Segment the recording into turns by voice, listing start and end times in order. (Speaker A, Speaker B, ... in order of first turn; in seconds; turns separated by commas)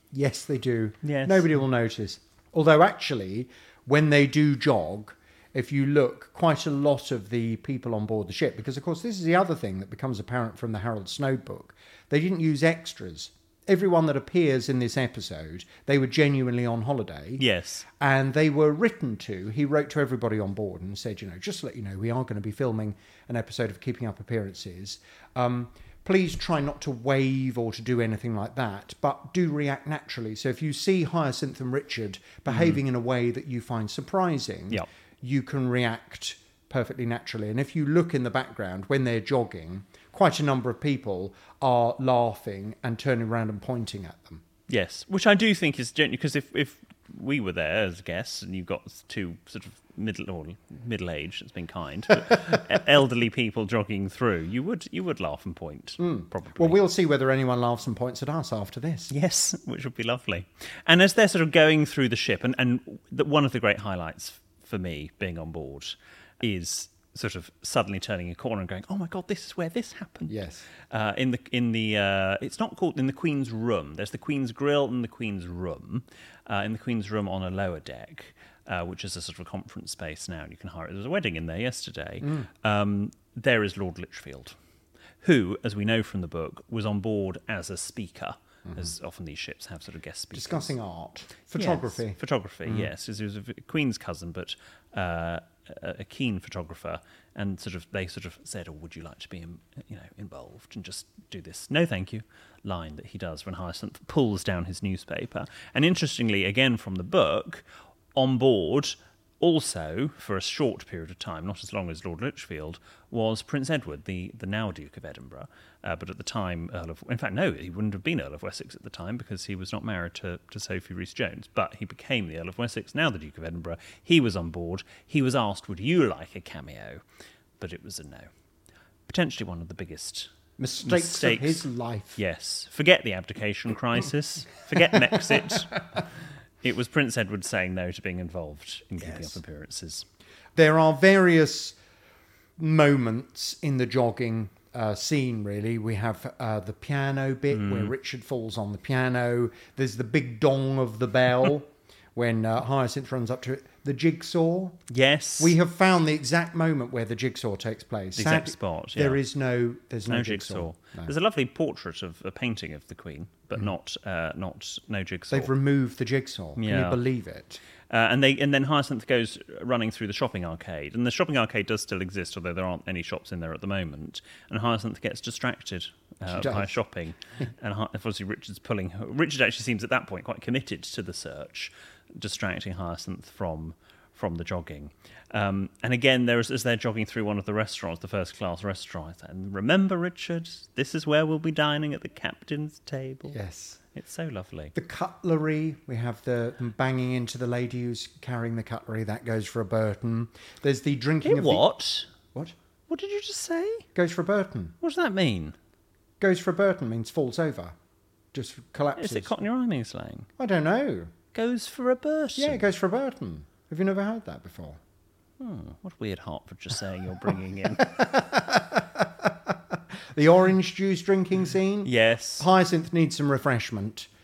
Speaker A: 0.1-17.4, Speaker B: 1.0-1.5, Speaker B: 17.4-17.9, Speaker A: 18.0-44.4, Speaker B: 32.5-32.8, Speaker B: 44.7-56.8, Speaker A: 56.0-59.1, Speaker B: 59.1-70.4, Speaker A: 70.3-70.7, Speaker B: 70.9-84.5, Speaker A: 82.2-82.5, Speaker B: 85.2-90.8, Speaker A: 90.3-92.9, Speaker B: 91.5-127.0, Speaker B: 127.6-128.3, Speaker B: 129.1-130.3, Speaker A: 130.6-132.2, Speaker B: 130.8-131.7, Speaker B: 132.2-136.0, Speaker A: 134.9-135.5, Speaker B: 136.6-140.1, Speaker A: 139.0-139.4, Speaker A: 140.6-141.8, Speaker A: 142.6-154.8, Speaker B: 147.5-147.9, Speaker B: 154.9-155.6, Speaker A: 155.4-161.1, Speaker B: 158.2-159.2, Speaker B: 160.1-165.5, Speaker A: 165.3-167.6, Speaker B: 166.6-167.0, Speaker B: 167.9-193.4, Speaker A: 176.3-176.8, Speaker A: 193.3-193.8, Speaker B: 193.9-194.7, Speaker A: 194.7-201.7, Speaker B: 201.2-202.1, Speaker B: 202.9-203.8, Speaker A: 203.9-204.8, Speaker B: 204.8-205.6, Speaker A: 206.2-207.8, Speaker A: 208.3-209.4, Speaker B: 209.0-210.3, Speaker A: 210.4-211.1, Speaker B: 211.3-212.7, Speaker A: 212.4-214.8, Speaker B: 215.4-217.8, Speaker A: 217.8-224.1, Speaker B: 221.8-222.5